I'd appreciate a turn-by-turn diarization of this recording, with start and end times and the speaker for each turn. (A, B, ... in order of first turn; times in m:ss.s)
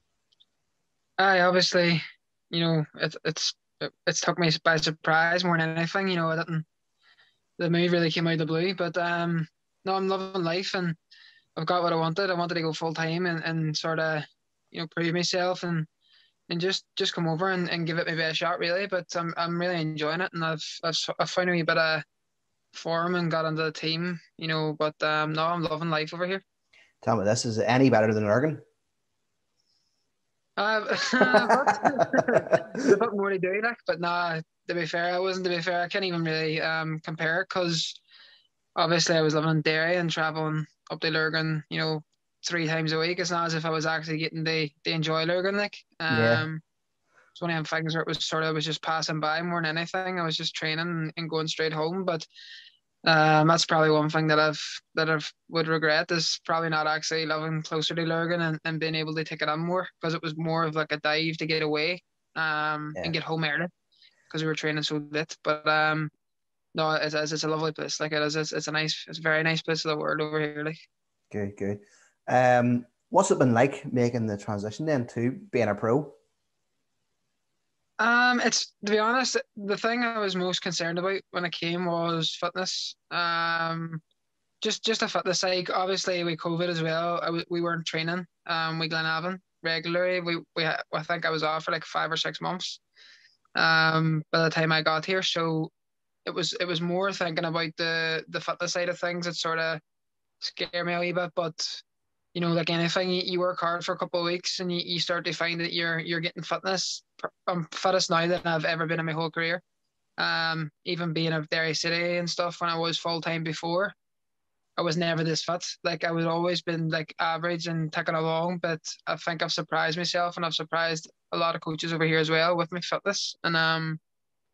0:01.2-0:06.6 A
0:07.6-0:11.0 A
0:11.6-0:15.9 A
0:16.5-0:22.0 A
0:22.7-0:26.4 A
0:27.0-0:28.6 B
0:30.6-0:38.0 A
0:31.3-0:32.7 B
0:38.8-0:46.6 A
0:46.1-0:46.4 B
0:47.4-0:52.3 A
0:53.0-1:03.7 A
1:04.3-1:06.1 A
1:06.7-1:10.8 A
1:11.3-1:16.1 B
1:18.0-1:24.0 A
1:24.6-1:32.8 A
1:33.6-1:35.7 A
1:36.2-1:39.8 A
1:40.4-1:49.6 A
1:50.2-1:53.9 A
1:54.8-2:04.0 A